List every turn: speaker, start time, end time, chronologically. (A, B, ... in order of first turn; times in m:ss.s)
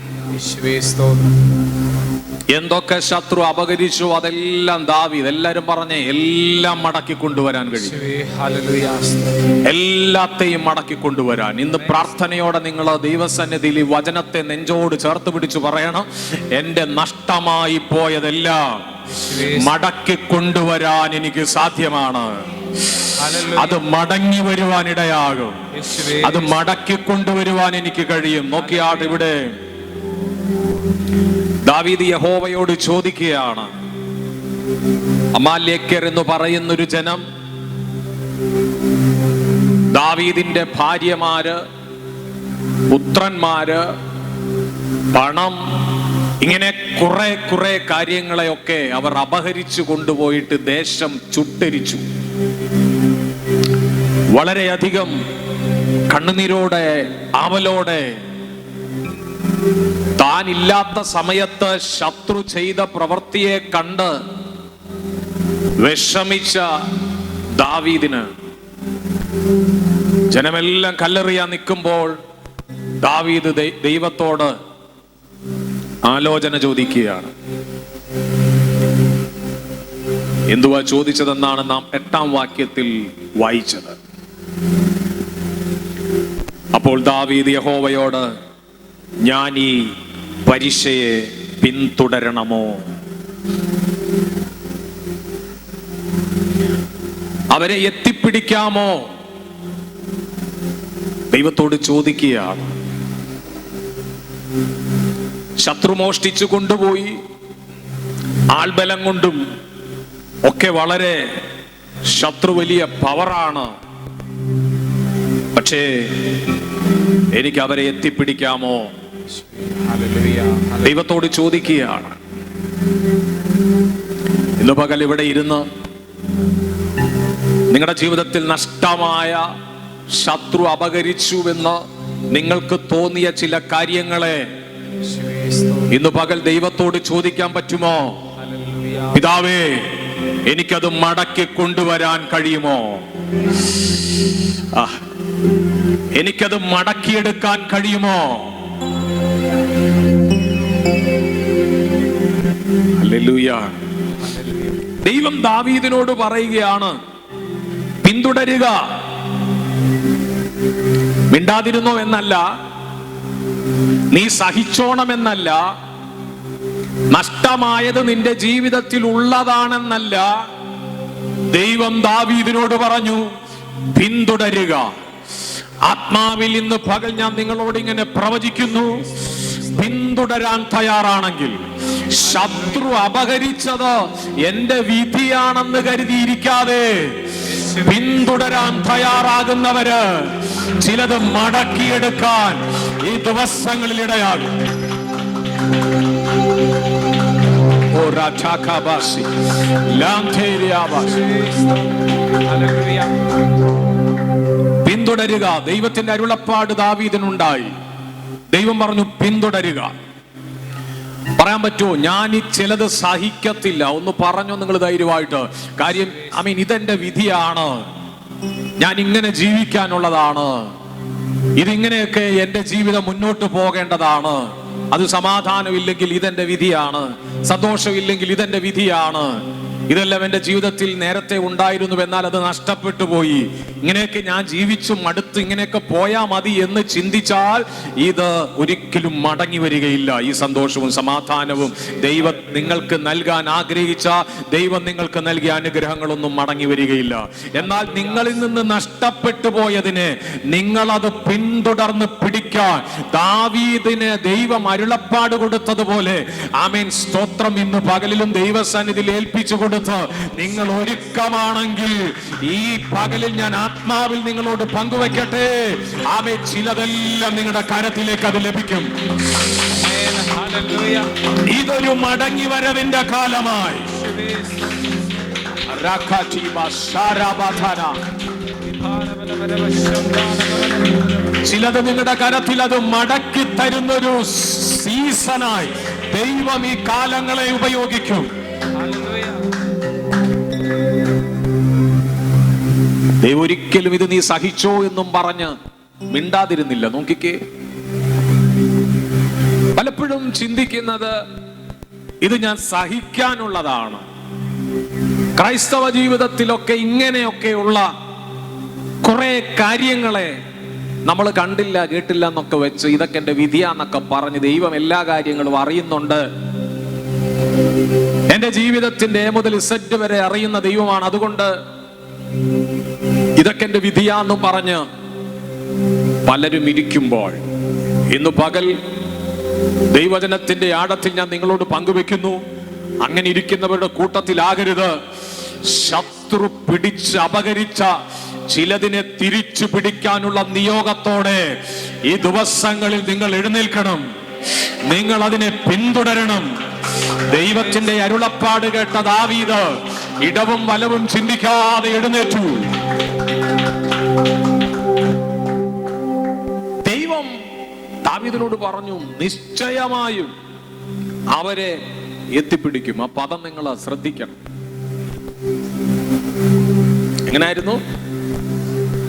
0:00.3-0:01.3 A
0:02.5-0:07.9 B
0:07.8-0:09.5 A
0:09.6-0:18.9 B
0:11.7-0:12.1 A
0:19.0-0:19.7 A
0:19.4-0:22.4 B
0:23.2-0:23.9 A
0:23.5-0:25.6 B
0:25.7-0:26.6 A
0:26.2-0:29.5 B
0:28.6-0:29.2 A
0:31.6-0:33.7 B
0:35.3-0:37.2 B
0:39.9-0:41.6 B
0:42.9-0:43.9 B
0:45.1-0:45.6 B
0:46.4-0:52.0 B
0:54.3-0:55.2 B
0:56.1-0:58.2 B
1:00.2-1:04.2 B
1:05.8-1:06.7 B
1:07.6-1:08.3 B
1:10.3-1:12.2 B
1:13.0-1:14.5 B
1:16.0-1:17.3 B
1:20.5-1:24.0 B
1:26.7-1:28.3 B
1:29.2-1:29.9 B
1:30.4-1:32.8 B
1:37.5-1:39.0 B
1:41.3-1:42.7 B
1:45.6-1:47.2 B
1:48.5-1:49.4 B
1:50.4-1:51.3 B
1:52.1-1:53.7 B
1:55.5-1:56.3 B
1:57.3-1:58.9 B
1:59.3-2:01.0 A
2:00.8-2:02.2 B
2:04.6-2:05.6 B
2:07.7-2:09.4 B
2:10.1-2:11.8 B
2:12.3-2:14.5 B
2:15.0-2:16.0 A
2:15.9-2:18.2 B
2:18.3-2:19.3 A
2:19.1-2:19.9 B
2:20.4-2:23.0 B
2:24.7-2:25.0 B
2:26.1-2:28.6 B
2:33.0-2:33.8 B
2:34.2-2:34.9 A
2:35.0-2:37.0 B
2:38.0-2:39.0 B
2:41.3-2:42.5 B
2:44.1-2:45.7 B
2:47.1-2:50.3 B
2:51.5-2:53.3 B
2:53.9-2:54.9 B
2:55.8-2:59.0 B
2:58.7-3:00.0 A
2:59.7-3:01.6 B
3:02.1-3:07.2 B
3:02.2-3:02.9 A
3:07.4-3:08.4 A
3:07.8-3:14.5 B
3:17.9-3:19.3 B
3:19.9-3:21.2 B
3:20.9-3:23.2 A
3:24.8-3:27.7 B
3:28.5-3:29.9 B
3:31.4-3:37.9 B
3:35.9-3:36.4 A
3:38.8-3:40.7 B
3:41.6-4:28.9 B
4:07.5-4:08.4 A
4:29.7-4:31.1 A
4:31.4-4:33.9 B
4:33.9-4:35.1 A
4:35.7-4:38.0 B
4:38.6-4:41.4 A
4:41.4-4:48.3 B
4:48.7-4:49.5 A
4:53.2-4:55.5 B
4:56.1-4:57.4 B
4:59.7-5:01.2 B
5:02.2-5:04.0 B
5:05.4-5:07.9 B
5:09.0-5:10.4 B
5:11.0-5:16.2 B
5:18.3-5:21.5 B
5:23.4-5:24.8 B
5:26.2-5:27.4 B
5:28.1-5:28.8 B
5:29.9-5:32.4 B
5:33.0-5:35.0 B
5:35.6-5:37.9 B
5:38.5-5:41.6 B
5:42.1-5:44.0 B
5:44.8-5:46.5 B
5:47.3-5:52.7 B
5:47.3-5:47.7 A
5:56.8-5:57.4 B
5:58.0-6:00.3 B
6:01.3-6:01.8 B
6:02.3-6:04.4 B
6:07.3-6:07.8 B